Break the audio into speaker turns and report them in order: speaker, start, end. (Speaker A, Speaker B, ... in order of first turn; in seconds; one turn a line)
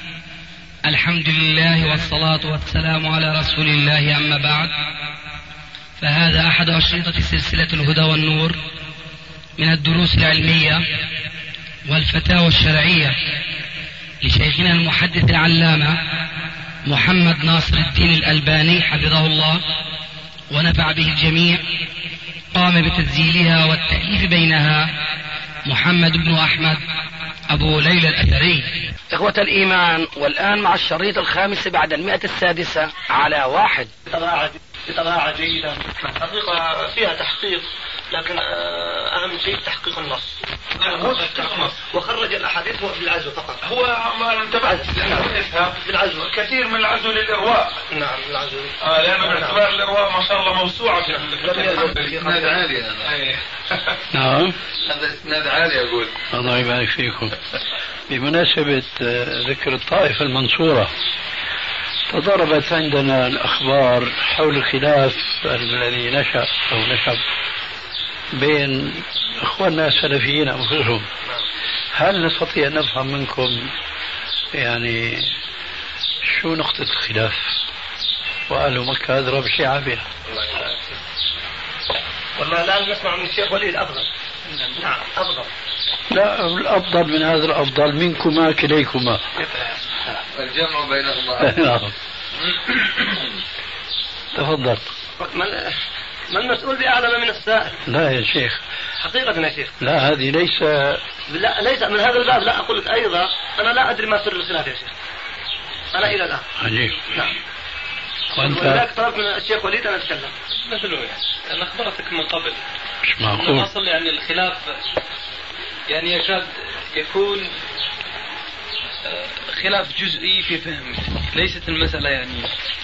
Speaker A: 0.8-4.7
Speaker A: 6.0-8.6
Speaker A: 9.6-10.9
Speaker A: 11.9-13.2
Speaker A: 14.2-16.0
Speaker A: 16.9-19.6
Speaker A: 20.5-21.7
Speaker A: 22.5-24.9
Speaker A: 25.7-26.8
Speaker A: 27.5-28.7
Speaker B: 29.1-33.9
Speaker C: 34.1-43.6
Speaker D: 40.8-41.8
Speaker D: 43.6-47.8
Speaker C: 45.8-46.3
Speaker C: 47.9-49.6
Speaker D: 48.8-53.4
Speaker C: 51.1-52.3
Speaker E: 52.1-53.1
Speaker F: 54.1-54.6
Speaker E: 54.9-56.1
Speaker F: 56.3-57.4
Speaker F: 58.1-60.9
Speaker F: 62.1-67.2
Speaker F: 68.3-71.1
Speaker F: 72.0-73.7
Speaker F: 74.5-75.3
Speaker F: 76.3-77.5
Speaker F: 78.5-80.1
Speaker C: 82.4-84.1
Speaker C: 84.8-85.5
Speaker F: 86.1-89.2
Speaker E: 90.3-91.6
Speaker F: 91.4-91.9
Speaker F: 94.3-94.9
Speaker C: 95.2-95.8
Speaker C: 96.3-97.8
Speaker F: 97.9-98.6
Speaker C: 99.0-99.8
Speaker F: 99.8-101.0
Speaker C: 101.3-104.9
Speaker C: 105.9-106.5
Speaker F: 106.6-107.1
Speaker C: 108.3-110.3
Speaker F: 108.4-108.8
Speaker G: 110.6-112.6
Speaker F: 113.0-113.7
Speaker G: 113.4-114.7
Speaker G: 115.9-117.5
Speaker G: 119.0-122.5